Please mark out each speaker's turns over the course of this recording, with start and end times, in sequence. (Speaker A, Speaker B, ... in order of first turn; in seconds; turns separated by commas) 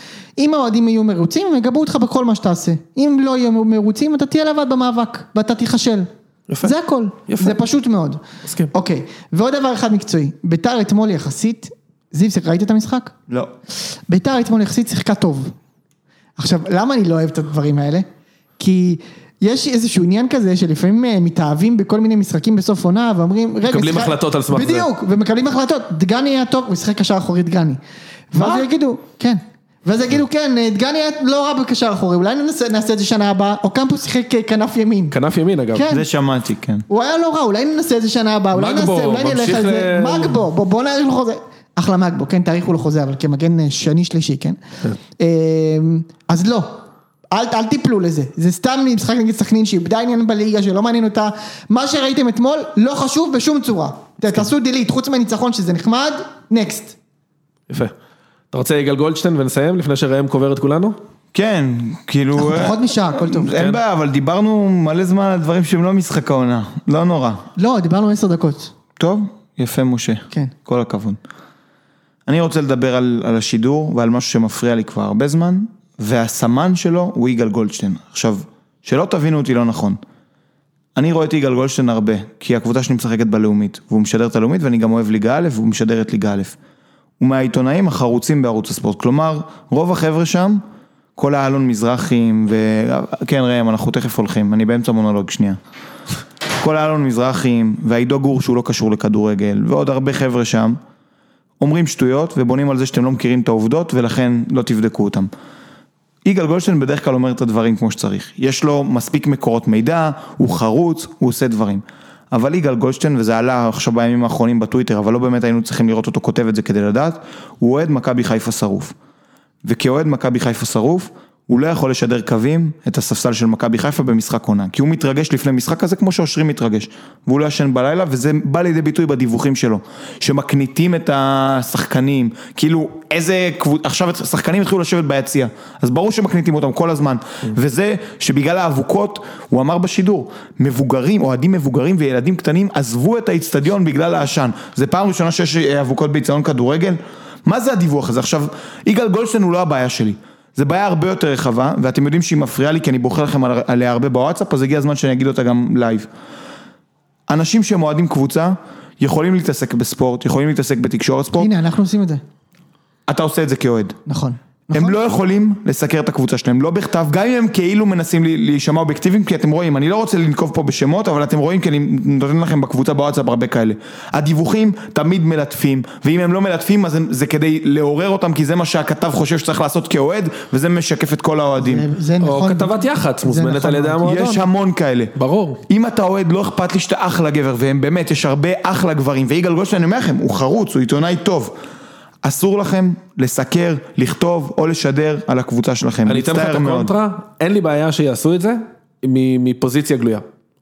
Speaker A: 0.4-6.1, Speaker B: 6.5-6.7, Speaker A: 6.6-8.2, Speaker B: 7.3-7.6, Speaker B: 8.4-8.7, Speaker A: 8.7-13.1, Speaker A: 14.1-15.5, Speaker A: 16.4-18.1, Speaker A: 18.6-27.8, Speaker B: 23.7-24.9, Speaker A: 28.3-35.1, Speaker B: 35.1-35.9, Speaker A: 35.7-36.0, Speaker C: 35.9-36.9, Speaker A: 36.9-44.6, Speaker B: 38.5-40.4, Speaker A: 45.2-57.0, Speaker B: 58.5-61.0, Speaker C: 61.3-67.4, Speaker A: 62.4-63.5, Speaker A: 67.6-68.7, Speaker C: 69.0-71.2, Speaker C: 72.3-80.0, Speaker C: 81.0-86.6, Speaker C: 87.2-90.6, Speaker C: 91.2-95.6, Speaker C: 96.6-100.8, Speaker C: 101.6-105.3, Speaker C: 106.2-119.0, Speaker C: 119.7-156.1, Speaker C: 157.3-161.5, Speaker A: 161.4-162.2, Speaker C: 163.1-164.0, Speaker A: 164.1-165.0, Speaker C: 164.7-181.9, Speaker A: 181.6-184.1, Speaker B: 182.2-184.5, Speaker C: 184.0-185.1, Speaker B: 185.2-185.6, Speaker C: 185.7-191.6, Speaker C: 192.2-196.9, Speaker B: 196.1-200.2